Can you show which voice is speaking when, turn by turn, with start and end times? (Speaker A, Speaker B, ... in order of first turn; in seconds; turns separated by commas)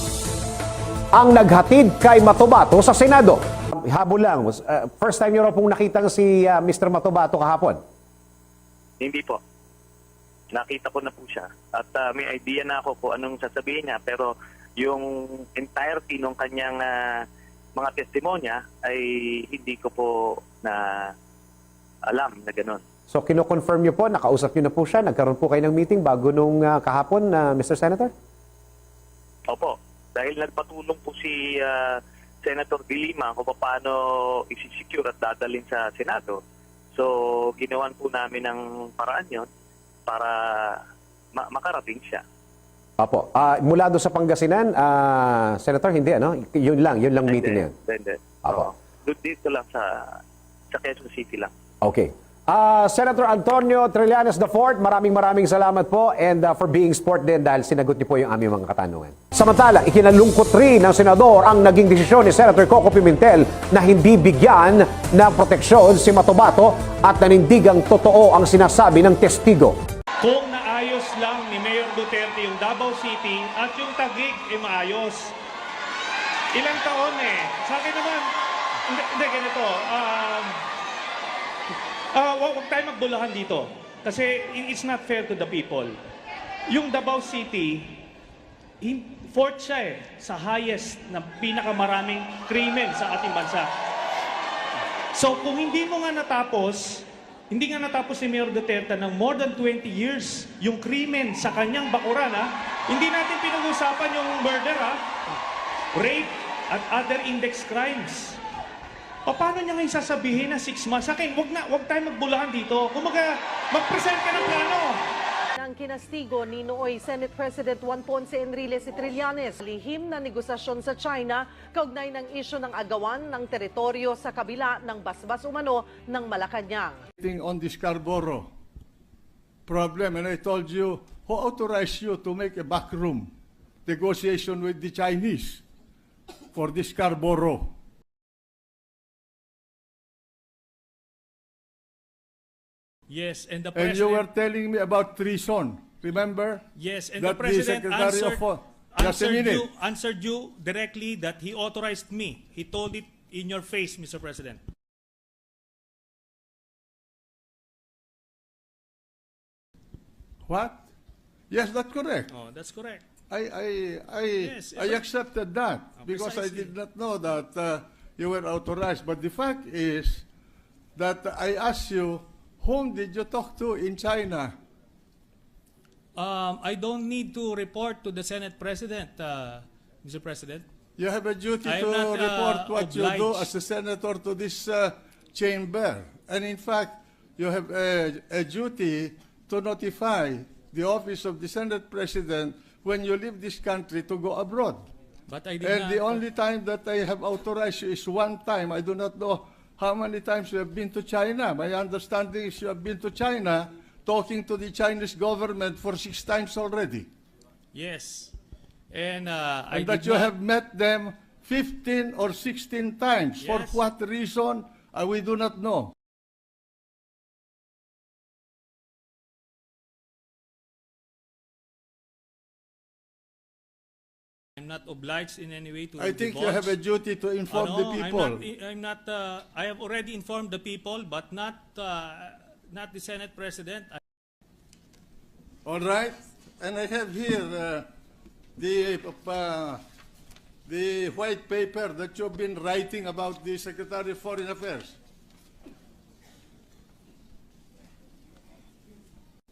Speaker A: 1.1-7.8, Speaker B: 9.0-9.4, Speaker B: 10.5-17.2, Speaker B: 17.8-21.1, Speaker B: 22.1-22.8, Speaker A: 23.1-28.1, Speaker B: 29.5-36.4, Speaker B: 36.9-39.5, Speaker B: 40.1-40.8, Speaker B: 41.3-42.2, Speaker A: 43.0-47.7, Speaker B: 47.2-50.2, Speaker B: 50.7-51.5, Speaker A: 51.8-69.7, Speaker C: 70.2-75.3, Speaker C: 76.5-78.3, Speaker C: 78.9-80.5, Speaker C: 82.1-86.0, Speaker C: 86.7-88.0, Speaker C: 88.8-93.7, Speaker C: 95.1-105.0, Speaker C: 105.9-108.4, Speaker C: 109.3-115.0, Speaker D: 115.5-127.0, Speaker E: 127.2-128.5, Speaker E: 129.7-133.3, Speaker E: 133.8-135.6, Speaker E: 136.5-137.7, Speaker C: 143.1-144.3, Speaker E: 143.7-146.6, Speaker C: 146.7-154.6, Speaker E: 147.2-149.7, Speaker E: 160.4-160.8, Speaker E: 161.5-162.3, Speaker C: 162.3-163.0, Speaker E: 163.3-170.2, Speaker C: 164.4-165.0, Speaker C: 166.0-166.7, Speaker E: 170.9-174.6, Speaker C: 176.2-180.6, Speaker E: 181.0-194.9, Speaker C: 181.6-183.5, Speaker C: 195.3-196.2, Speaker E: 195.6-207.1, Speaker C: 207.7-208.3, Speaker C: 208.9-210.3, Speaker E: 209.7-215.9, Speaker C: 213.4-213.8, Speaker C: 224.6-226.8, Speaker E: 226.0-228.5, Speaker C: 227.5-234.0, Speaker E: 235.6-237.9, Speaker E: 238.6-239.8, Speaker E: 240.7-245.0